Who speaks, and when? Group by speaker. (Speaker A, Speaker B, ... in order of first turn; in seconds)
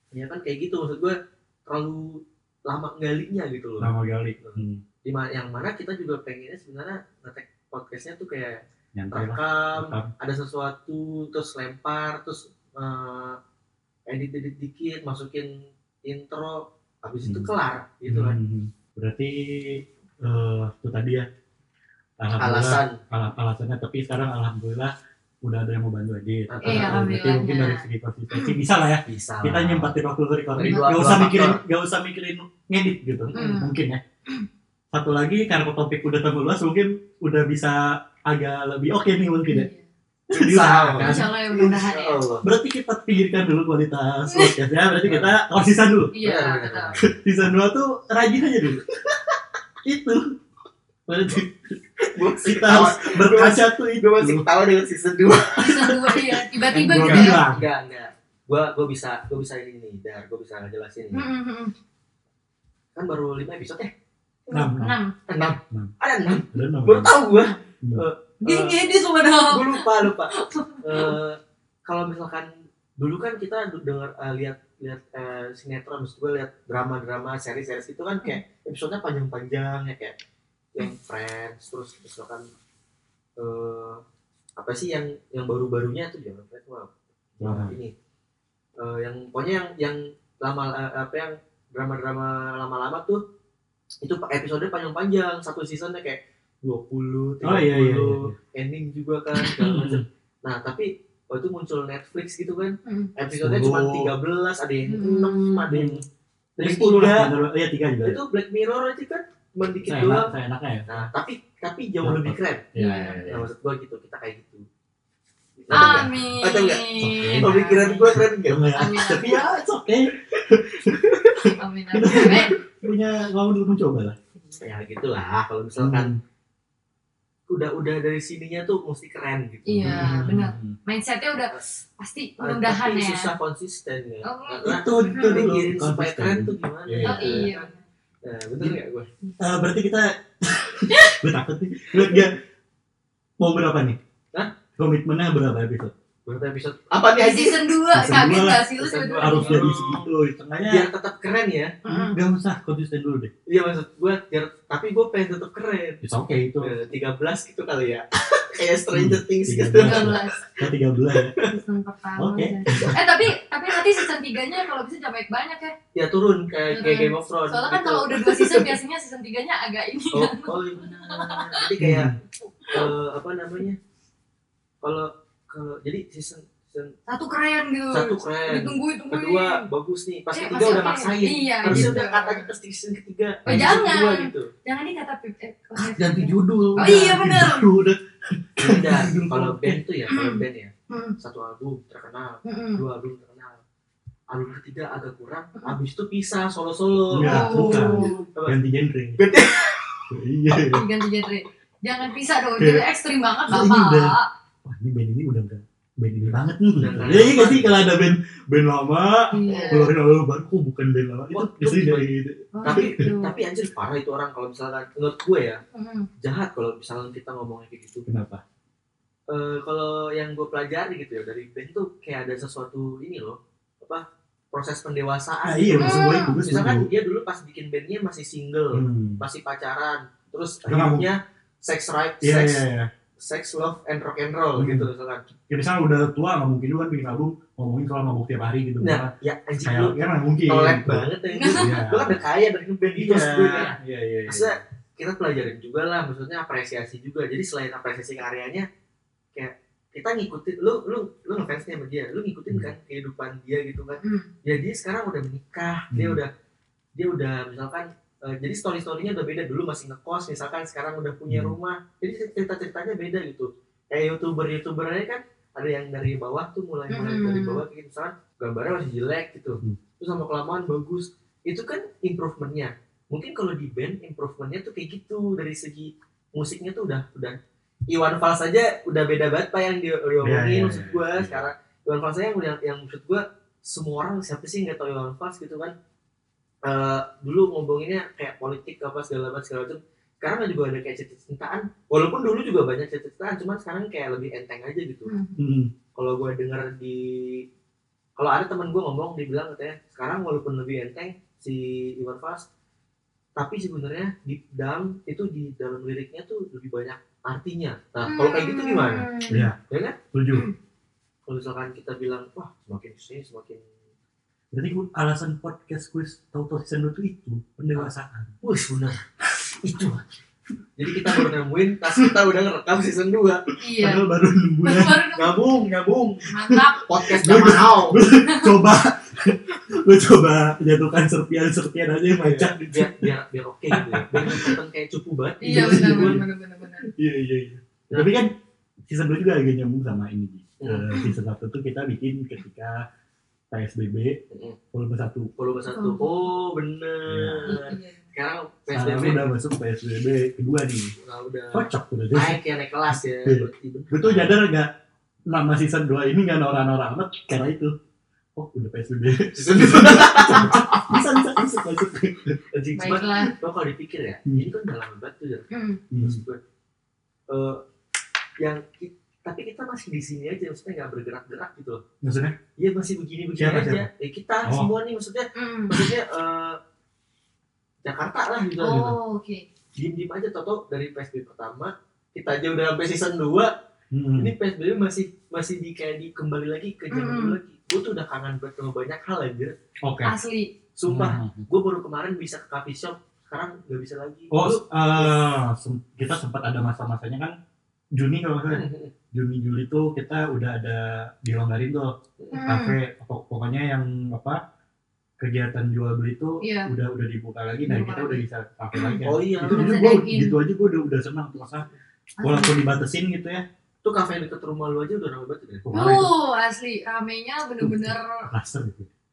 Speaker A: 0.1-13.4, 14.1-15.5, 16.1-18.4, 22.4-23.0, 26.5-27.1, 29.1-29.9, 30.5-31.6, 33.4-33.6, 40.3-42.5, 45.0-45.3, 46.2-47.1, 52.0-61.3, 63.0-63.9, 65.3-68.8, 69.5-80.2, 80.7-82.5, 83.4-84.0, 84.6-87.9, 88.8-93.2, 94.0-106.0, 106.6-107.3, 108.0-110.3, 110.9-112.7, 113.3-114.7, 115.6-119.2, 120.9-121.5, 122.1-122.5, 124.5-126.2, 127.5-130.3, 132.4-137.7, 138.2-139.1, 146.3-147.6, 148.8-150.1, 150.7-151.8, 153.5-156.0, 156.6-160.4, 161.1-161.5, 165.9-168.8, 170.1-172.2, 172.7-173.8, 174.8-176.9, 177.9-184.5, 186.8-187.2, 188.6-193.6, 194.3-198.6, 199.2-200.1, 206.6-207.9, 209.4-209.9, 211.3-212.1, 212.6-215.6, 216.2-218.0, 219.3-232.6, 233.2-235.3, 238.8-243.8, 244.3-248.7, 249.3-256.3, 257.0-277.4, 277.9-285.8, 286.6-295.1, 296.0-297.4, 298.2-302.5, 303.4-310.0, 311.3-313.6, 318.4-319.0, 319.6-320.1, 320.8-323.4, 325.1-328.0, 332.2-336.2, 340.6-340.9, 344.3-344.6, 345.4-349.3, 351.0-354.4, 359.3-361.0, 362.5-366.4, 367.3-367.6, 368.4-371.8, 372.6-376.6, 377.8-379.0, 379.8-383.5, 384.2-389.6, 390.8-395.2, 398.5-398.9, 402.2-402.4, 409.0-409.9, 413.8-415.6
Speaker B: 3.8-4.8, 8.9-10.1, 17.2-17.5, 18.1-21.3, 22.2-34.0, 34.9-39.7, 40.3-41.8, 42.4-46.1, 47.0-48.9, 49.8-50.4, 51.1-54.5, 56.8-57.6, 64.5-65.0, 66.5-67.1, 87.4-87.8, 97.4-98.4, 99.3-100.0, 103.4-104.1, 105.7-106.0, 106.6-108.2, 109.9-111.0, 112.0-113.5, 115.7-116.3, 117.0-124.2, 125.8-126.2, 129.7-130.8, 134.6-137.5, 139.4-142.4, 143.4-144.0, 144.8-145.9, 147.9-150.9, 151.9-153.3, 156.0-156.7, 158.9-161.3, 162.2-163.3, 171.8-172.2, 181.7-182.0, 183.5-183.8, 185.8-189.8, 197.1-199.2, 200.1-200.9, 202.6-202.8, 203.5-213.1, 218.1-218.4, 225.4-226.9, 228.7-229.2, 230.7-231.1, 232.2-232.9, 234.6-234.9, 235.5-242.2, 242.9-244.6, 255.9-256.2, 261.3-261.6, 280.2-281.5, 295.4-295.7, 309.3-309.6, 310.1-310.5, 314.5-318.4, 323.8-325.0, 326.4-333.1, 333.7-334.6, 335.4-336.2, 336.8-338.3, 338.9-342.9, 343.5-344.2, 344.7-345.3, 347.1-347.6, 348.7-350.9, 351.5-354.7, 355.3-357.8, 358.4-362.4, 365.9-366.2, 372.0-372.4, 373.4-373.9, 374.4-374.7, 383.9-384.3, 389.8-390.1, 390.9-391.4, 394.3-397.4, 397.9-401.9, 402.5-404.4, 405.2-411.7, 412.2-413.4, 415.7-416.1, 417.6-418.9
Speaker C: 26.6-28.6, 30.7-31.2, 33.3-33.8, 39.5-39.9, 41.0-42.2, 44.3-44.6, 46.1-47.0, 55.6-57.5, 61.1-61.7, 64.5-65.1, 68.4-71.2, 102.8-103.1, 104.9-105.7, 112.8-113.3, 115.7-119.6, 121.5-122.6, 129.8-133.3, 134.2-135.6, 137.0-137.8, 140.9-141.2, 147.2-149.7, 151.8-152.2, 159.8-160.7, 161.4-165.8, 166.7-171.7, 177.1-179.7, 180.3-182.5, 183.5-187.7, 190.1-191.2, 192.4-192.8, 197.2-198.2, 200.7-204.3, 209.3-209.9, 212.5-213.4, 215.7-216.1, 225.8-226.4, 241.3-241.7, 254.0-254.3, 266.9-267.6, 295.1-295.4, 308.0-309.5, 323.6-324.1, 324.6-325.7, 326.2-326.9, 328.2-328.6, 335.4-336.9, 340.9-341.1, 345.7-346.1, 347.5-348.1, 362.8-363.4, 365.5-365.8, 375.4-375.9, 378.6-379.5, 386.9-387.4, 390.0-390.5, 402.3-402.8, 406.4-406.7, 407.6-408.2, 408.7-410.4, 412.2-412.6, 415.7-418.3